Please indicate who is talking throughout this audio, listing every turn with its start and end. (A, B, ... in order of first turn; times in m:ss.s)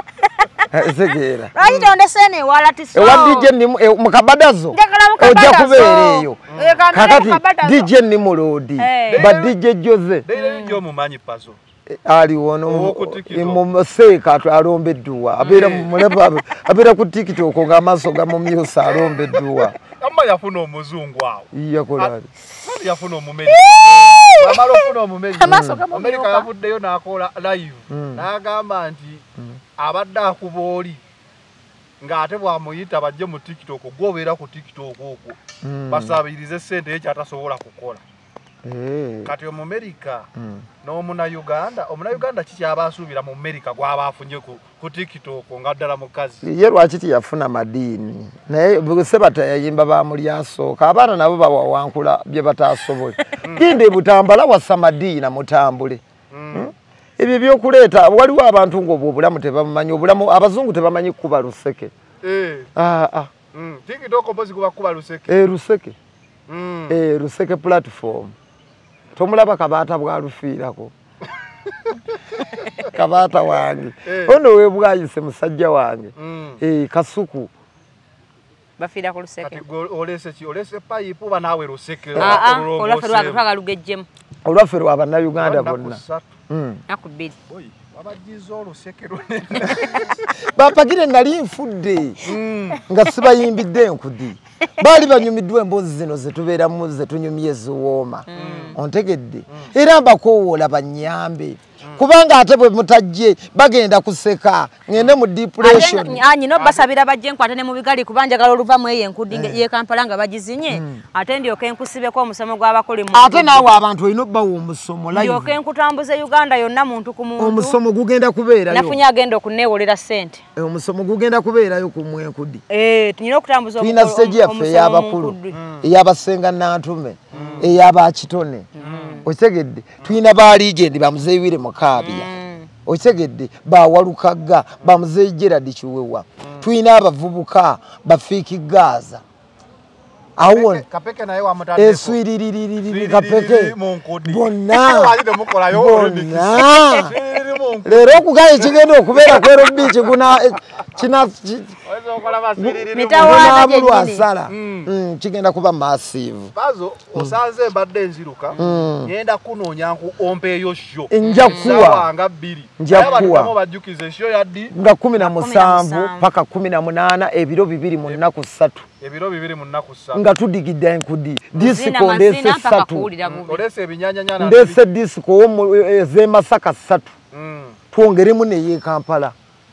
0:00.7-0:01.5 A
0:01.5-0:03.5 B
0:01.6-0:01.9 C
0:02.9-0:10.2 A
0:04.7-0:07.9 B
0:06.5-0:06.8 C
0:08.8-0:09.3 B
0:09.1-0:09.5 C
0:10.2-0:11.6 C
0:10.3-0:10.8 B
0:11.9-0:19.8 A
0:12.7-0:13.6 C
0:15.4-0:15.9 C
0:15.4-0:15.8 B
0:18.9-0:29.2 C
0:21.5-0:22.3 A
0:23.5-0:26.5 B
0:25.4-0:25.8 A
0:27.9-0:28.2 A
0:29.8-0:31.0 C
0:32.0-0:35.4 C
0:35.6-0:36.2 A
0:35.9-0:38.0 C
0:38.6-0:39.3 A
0:39.2-0:40.3 C
0:40.4-0:40.6 A
0:40.8-0:46.5 C
0:46.4-0:56.0 A
0:53.4-0:53.8 C
0:56.3-0:56.7 C
0:56.5-1:01.9 A
1:02.2-1:02.7 C
1:02.8-1:03.3 A
1:03.5-1:05.4 C
1:05.3-1:06.0 A
1:06.5-1:07.0 C
1:06.9-1:08.4 A
1:09.1-1:10.9 A
1:12.8-1:17.5 A
1:14.0-1:14.4 C
1:16.2-1:16.6 C
1:18.8-1:19.6 B
1:19.4-1:23.4 C
1:22.2-1:24.1 B
1:22.2-1:22.4 A
1:24.4-1:26.8 A
1:25.4-1:26.2 C
1:26.9-1:27.4 B
1:27.5-1:30.3 C
1:30.4-1:32.2 A
1:32.2-1:32.8 C
1:32.8-1:46.2 A
1:38.3-1:38.8 B
1:38.4-1:38.8 C
1:45.6-1:53.7 B
1:46.6-1:46.8 C
1:49.3-1:49.6 A
1:50.7-1:51.0 A
1:53.1-1:55.6 A
1:55.1-1:57.8 B
1:57.4-1:59.0 A
1:58.7-2:00.4 B
2:00.6-2:02.6 A
2:02.7-2:05.6 B
2:03.8-2:08.7 A
2:05.5-2:05.8 C
2:07.3-2:07.8 C
2:08.8-2:09.2 B
2:08.8-2:09.2 C
2:09.2-2:12.3 A
2:12.0-2:12.7 B
2:12.8-2:19.2 A
2:20.4-2:20.8 A
2:20.4-2:22.2 C
2:21.8-2:27.2 A
2:22.8-2:30.0 C
2:27.8-2:31.8 A
2:31.9-2:33.6 C
2:32.6-2:36.5 A
2:32.9-2:34.2 B
2:34.5-2:34.9 C
2:36.5-2:44.7 C
2:38.5-2:38.8 B
2:38.6-2:39.1 A
2:41.1-2:42.1 A
2:41.2-2:41.8 B
2:42.8-2:43.5 A
2:42.9-2:43.3 B
2:44.7-2:48.8 A
2:45.2-2:46.3 B
2:49.0-2:50.2 C
2:50.1-2:53.1 A
2:51.6-2:53.6 B
2:53.2-2:54.8 C
2:54.4-2:57.1 A
2:57.3-2:57.8 C
2:57.9-2:59.3 A